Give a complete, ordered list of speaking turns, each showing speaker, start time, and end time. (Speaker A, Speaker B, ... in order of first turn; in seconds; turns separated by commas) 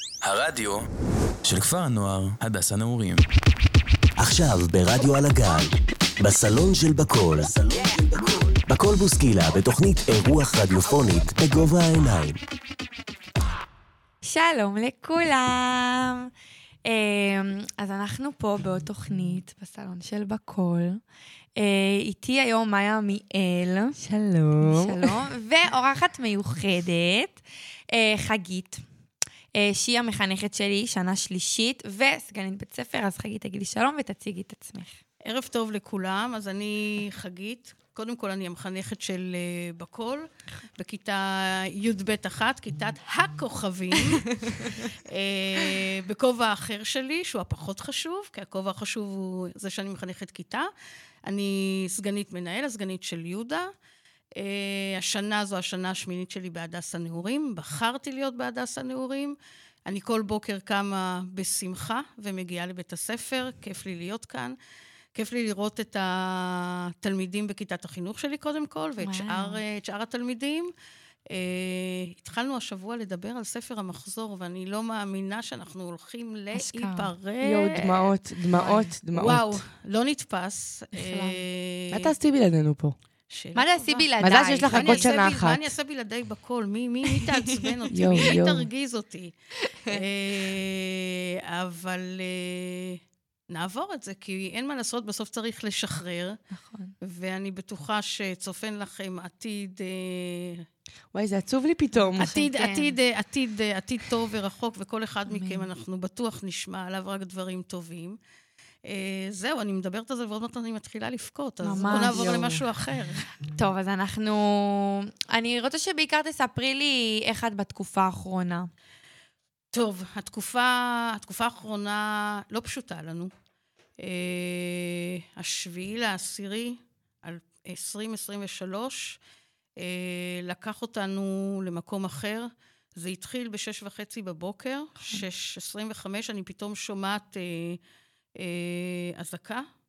Speaker A: 0.2-0.9, Speaker A: 1.4-3.2, Speaker B: 4.2-12.4, Speaker C: 14.2-16.3, Speaker C: 16.9-21.0, Speaker C: 21.6-24.0, Speaker D: 24.0-25.1, Speaker C: 24.6-28.8, Speaker C: 29.5-35.0, Speaker E: 35.2-50.7, Speaker C: 44.5-44.8, Speaker E: 51.3-53.7, Speaker E: 54.4-64.6, Speaker E: 65.2-70.7, Speaker C: 69.0-69.6, Speaker E: 71.3-78.1, Speaker C: 76.5-77.1, Speaker D: 77.4-79.6, Speaker C: 78.5-78.9, Speaker E: 79.1-82.1, Speaker C: 81.0-81.4, Speaker D: 81.9-83.0, Speaker E: 83.3-89.3, Speaker C: 83.5-85.1, Speaker D: 84.2-85.7, Speaker D: 87.9-88.7, Speaker C: 89.7-90.0, Speaker E: 89.9-96.4, Speaker C: 96.5-96.9, Speaker E: 97.0-100.7, Speaker D: 101.1-102.3, Speaker C: 102.2-103.0, Speaker E: 102.2-108.2, Speaker C: 105.3-105.7, Speaker E: 108.9-113.2, Speaker C: 111.6-112.5, Speaker D: 111.8-112.6, Speaker C: 113.5-118.7, Speaker E: 119.7-123.3, Speaker E: 124.0-129.2, Speaker E: 129.8-137.8, Speaker C: 135.0-135.3, Speaker E: 138.4-139.7